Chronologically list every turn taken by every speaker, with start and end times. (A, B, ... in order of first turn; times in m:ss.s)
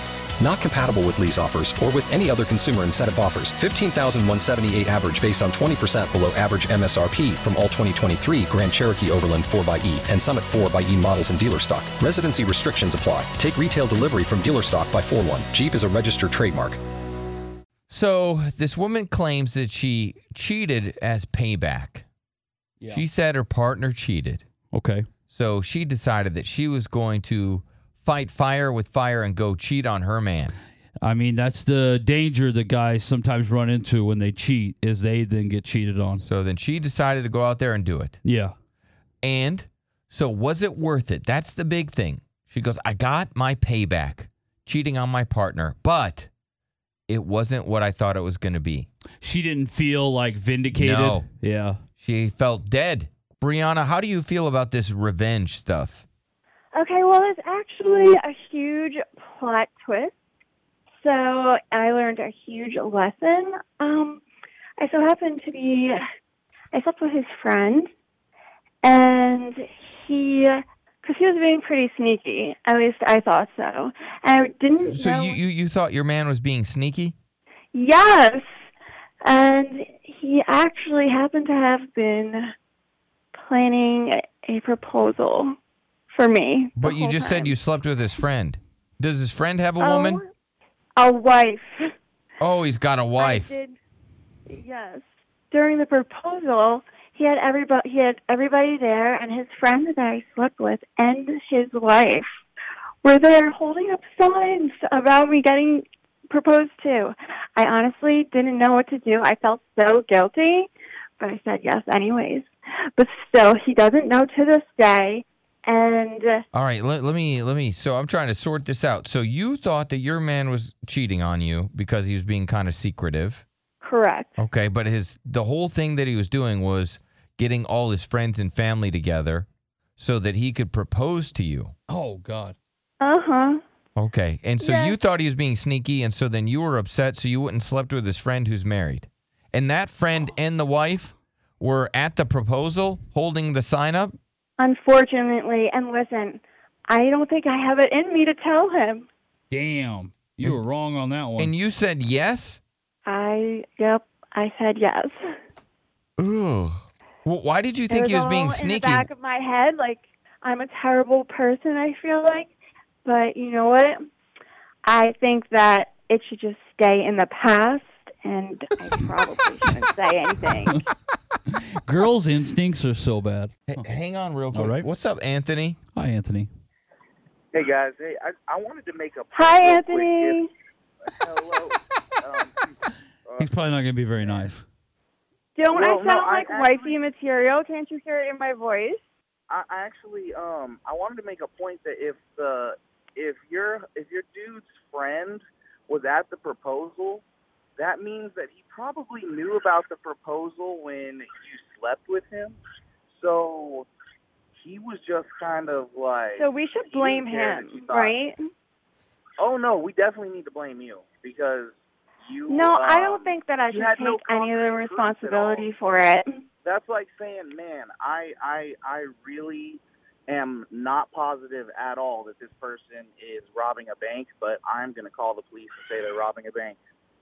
0:00.4-0:16.8 A
0:17.9-0:22.0 B
0:23.0-0:24.4 B
0:24.7-0:25.1 C
0:25.3-0:30.5 B
0:31.0-0:36.2 C
0:36.2-0:38.2 B
0:38.2-0:38.5 C
0:39.2-0:46.3 B
0:47.1-0:48.9 B
0:49.2-0:51.8 C
0:50.7-0:51.3 B
0:52.0-0:56.0 B
0:56.8-1:00.1 D
1:00.9-1:04.2 D
1:04.8-1:06.0 D
1:06.7-1:07.9 D
1:08.8-1:15.4 D
1:14.9-1:17.2 B
1:17.7-1:18.5 D
1:19.2-1:22.5 D
1:23.4-1:25.5 D
1:26.1-1:27.6 D
1:26.8-1:30.2 B
1:29.8-1:30.3 D
1:31.0-1:31.8 D
1:32.4-1:33.5 B
1:33.2-1:33.8 D
1:34.5-1:42.3 D
1:43.0-1:56.4 D
1:56.6-2:03.4 B
2:03.8-2:04.3 D
2:04.4-2:09.5 B
2:10.0-2:11.7 B
2:11.9-2:12.6 C
2:13.0-2:13.6 D
2:14.0-2:24.2 B
2:14.6-2:15.0 D
2:24.6-2:29.1 D
2:29.5-2:31.5 C
2:31.4-2:32.6 B
2:33.1-2:35.1 D
2:36.2-2:39.1 B
2:37.9-2:42.5 D
2:43.0-2:44.0 D
2:44.8-2:50.9 D
2:51.8-2:53.6 C
2:53.7-2:55.8 B
2:54.5-2:54.9 C
2:55.9-2:56.5 C
2:57.5-3:00.4 E
2:59.3-3:00.5 D
3:01.2-3:03.5 E
3:03.4-3:04.7 C
3:05.6-3:09.0 D
3:05.8-3:07.0 E
3:09.5-3:17.2 E
3:17.8-3:23.9 E
3:24.5-3:28.1 E
3:26.4-3:28.4 D
3:29.4-3:35.7 E
3:32.5-3:36.3 D
3:36.6-3:46.8 E